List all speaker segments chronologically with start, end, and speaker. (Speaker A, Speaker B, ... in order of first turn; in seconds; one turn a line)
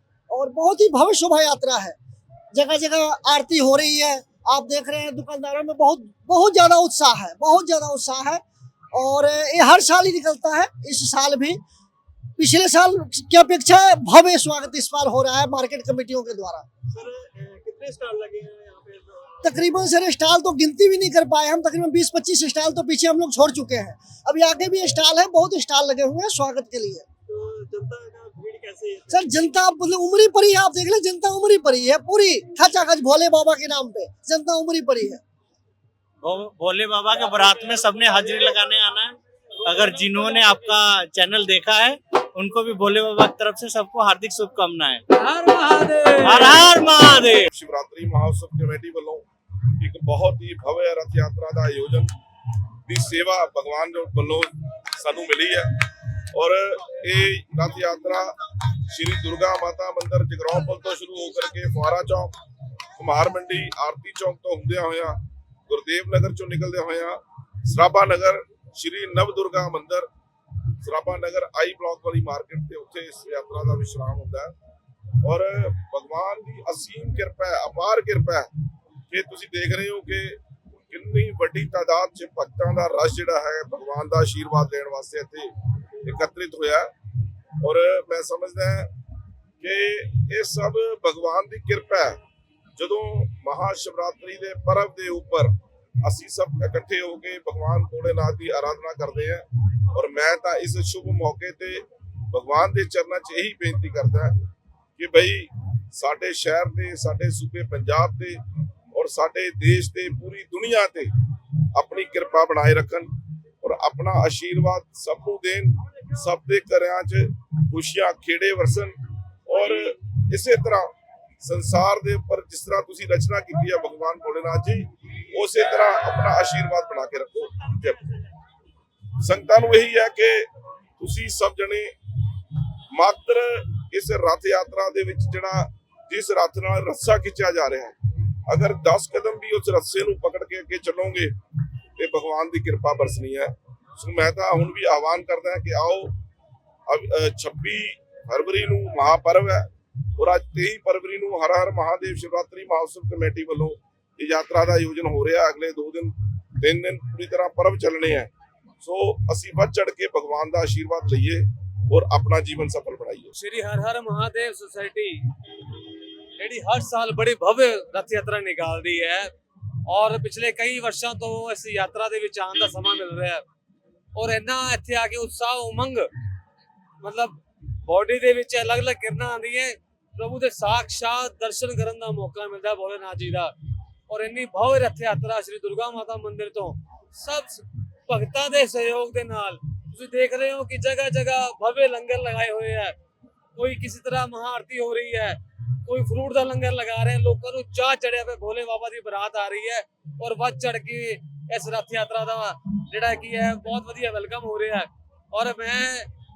Speaker A: 0.3-1.9
Speaker A: 2.5-11.6
Speaker A: 12.4-16.6
Speaker B: 16.9-19.4
Speaker A: 19.4-27.1
Speaker B: 27.3-29.2
Speaker A: 29.1-35.2
Speaker C: 36.2-45.0
Speaker D: 45.1-46.6
Speaker C: 46.2-47.5
Speaker E: 47.5-49.2
Speaker E: 49.8-52.1
Speaker E: 52.9-55.7
Speaker E: 56.3-62.3
Speaker E: 63.0-70.1
Speaker E: 70.8-74.5
Speaker E: 75.2-78.5
Speaker E: 79.1-85.5
Speaker E: 86.0-86.9
Speaker E: 87.6-88.9
Speaker E: 89.6-92.2
Speaker E: 92.8-104.4
Speaker E: 105.0-108.4
Speaker E: 108.9-111.1
Speaker E: 111.7-118.9
Speaker E: 119.5-120.9
Speaker E: 121.4-128.0
Speaker E: 129.2-130.5
Speaker E: 131.0-131.9
Speaker E: 132.9-137.9
Speaker E: 138.5-141.3
Speaker E: 142.0-146.1
Speaker E: 146.9-163.3
Speaker D: 163.3-165.3
Speaker D: 166.4-169.3
Speaker D: 169.8-173.4
Speaker D: 174.1-176.1
Speaker D: 177.0-183.5
Speaker D: 184.1-192.9
Speaker D: 193.6-206.1